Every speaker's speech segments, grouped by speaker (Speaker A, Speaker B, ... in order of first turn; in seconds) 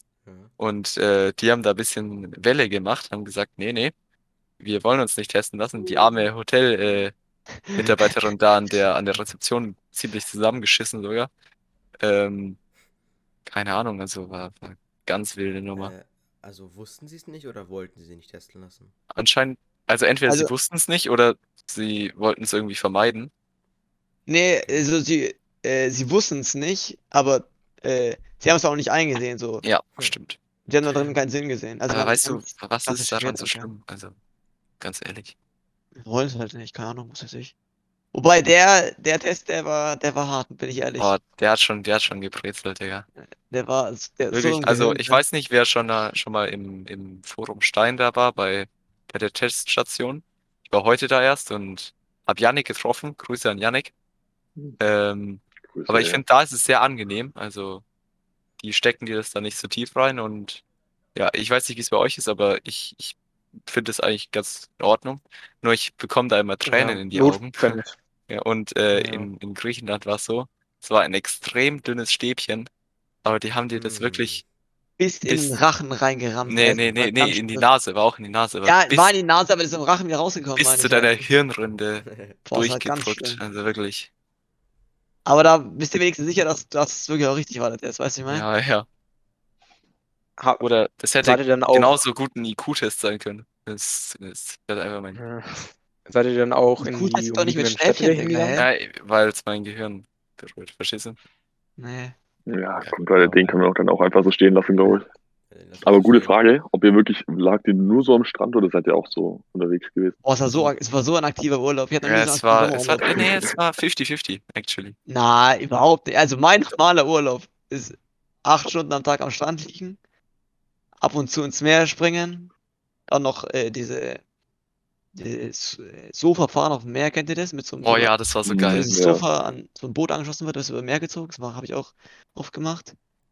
Speaker A: 0.2-0.5, 15.7-18.9, 69.0-69.2, 73.7-74.4, 82.1-82.3, 105.5-106.3
Speaker B: 0.6-3.9, 4.6-7.1, 7.7-11.3, 12.0-12.6, 13.4-15.9, 19.1-23.3, 29.6-30.4, 31.9-34.1, 34.8-35.3, 41.0-43.1, 44.3-53.9, 54.8-57.8, 58.6-60.6, 61.1-72.7, 73.2-74.4, 75.3-75.5, 76.5-79.1, 80.5-84.1, 88.3-88.9, 90.6-95.2, 98.5-101.2, 102.8-103.6, 112.0-115.0, 127.8-128.9
Speaker C: 7.7-8.1, 24.3-29.6, 30.7-33.7, 36.0-37.5, 38.1-41.1, 43.5-45.2, 75.0-77.7, 78.6-81.2, 82.5-83.4, 85.2-88.5, 96.8-98.7, 101.8-102.1, 110.2-113.2, 115.1-120.0, 121.0-122.5, 123.1-124.2, 125.1-128.1, 128.7-132.9
Speaker D: 55.7-56.2, 102.5-105.1, 105.8-110.2, 113.0-113.5, 128.4-129.2
Speaker E: 66.6-67.9, 90.4-90.6, 91.2-92.0, 95.1-98.6